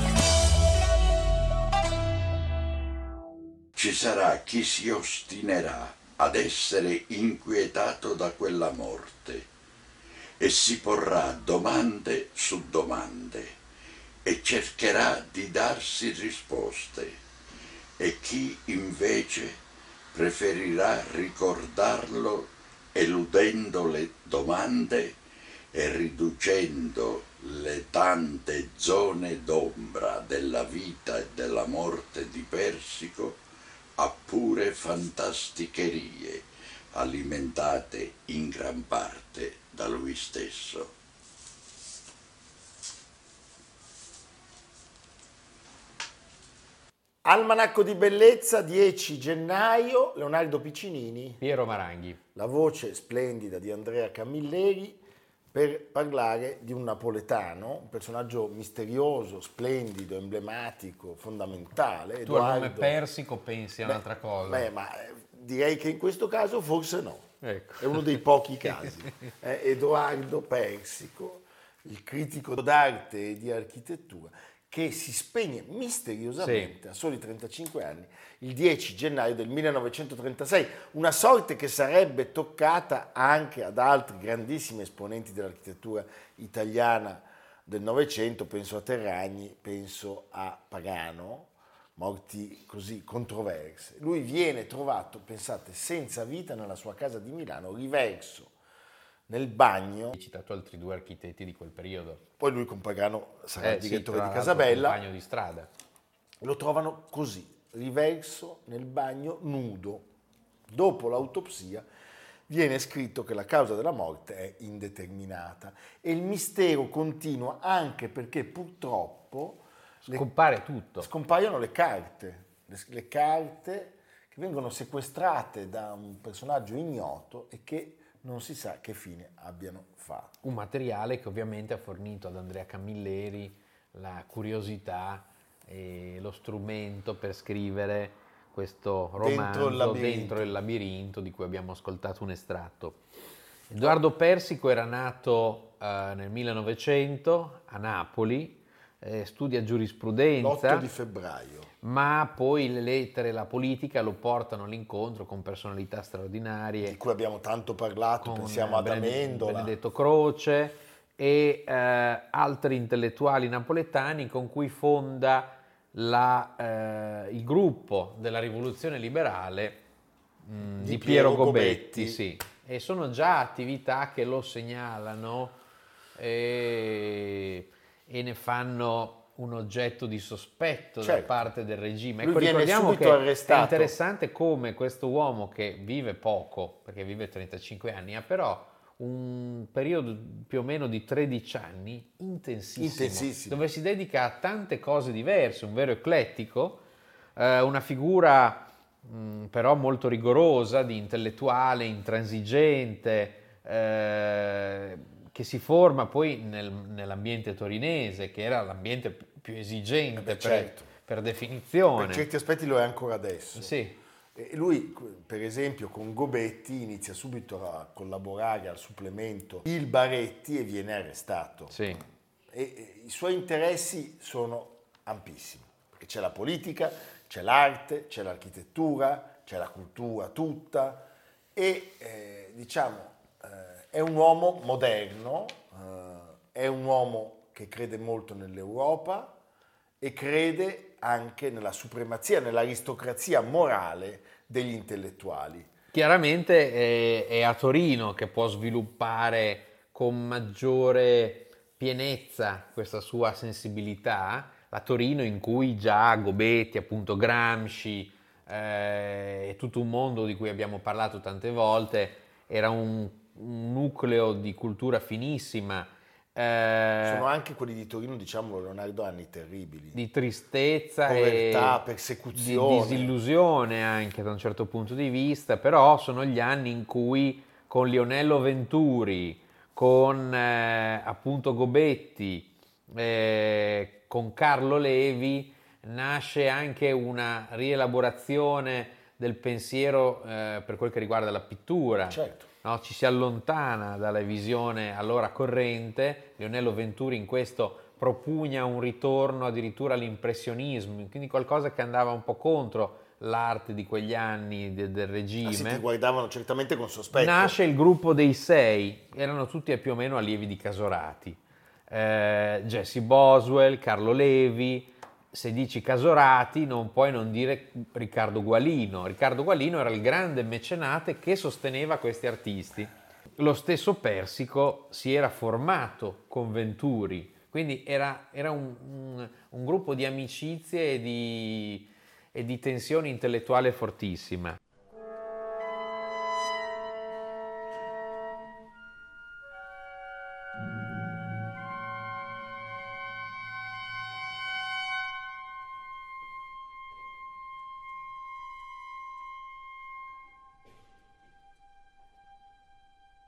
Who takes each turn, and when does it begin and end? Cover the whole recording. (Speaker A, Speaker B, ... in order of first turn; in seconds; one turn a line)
Speaker A: 3.7-9.5
Speaker A: 10.4-13.5
Speaker A: 14.2-17.2
Speaker A: 18.0-19.6
Speaker A: 20.1-25.2
Speaker A: 25.7-33.4
Speaker A: 34.0-40.9
Speaker B: 47.2-51.4
Speaker C: 51.4-52.2
Speaker B: 52.3-55.0
Speaker B: 55.5-63.0
Speaker C: 62.2-64.7
Speaker B: 63.8-98.5
Speaker C: 67.4-68.2
Speaker C: 68.8-69.1
Speaker C: 76.4-76.7
Speaker B: 99.3-100.2
Speaker C: 100.1-102.2
Speaker B: 102.4-105.0
Speaker C: 103.6-105.7
Speaker B: 106.4-110.1
Speaker B: 110.7-111.8
Speaker B: 112.5-120.3
Speaker C: 120.0-121.1
Speaker B: 121.0-130.4
Speaker C: 130.4-143.0
Speaker B: 139.2-140.5
Speaker C: 143.7-150.9
Speaker B: 150.4-151.7
Speaker C: 151.8-157.0
Speaker B: 156.8-159.7
Speaker C: 158.2-169.8
Speaker C: 170.4-175.6
Speaker B: 170.8-172.2
Speaker C: 176.2-196.8
Speaker B: 181.0-181.4
Speaker B: 182.2-183.9
Speaker B: 192.8-193.6
Speaker C: 197.3-212.2
Speaker B: 210.2-210.9
Speaker B: 211.9-213.8
Speaker C: 213.6-213.9
Speaker B: 214.3-221.8
Speaker C: 221.7-222.0
Speaker B: 222.5-239.4
Speaker B: 240.0-245.7
Speaker C: 245.9-267.2
Speaker B: 267.0-270.0
Speaker C: 269.9-271.8
Speaker B: 271.0-273.1
Speaker C: 272.3-305.8
Speaker B: 292.1-292.5
Speaker B: 305.4-307.6
Speaker C: 307.1-311.4
Speaker C: 311.9-334.6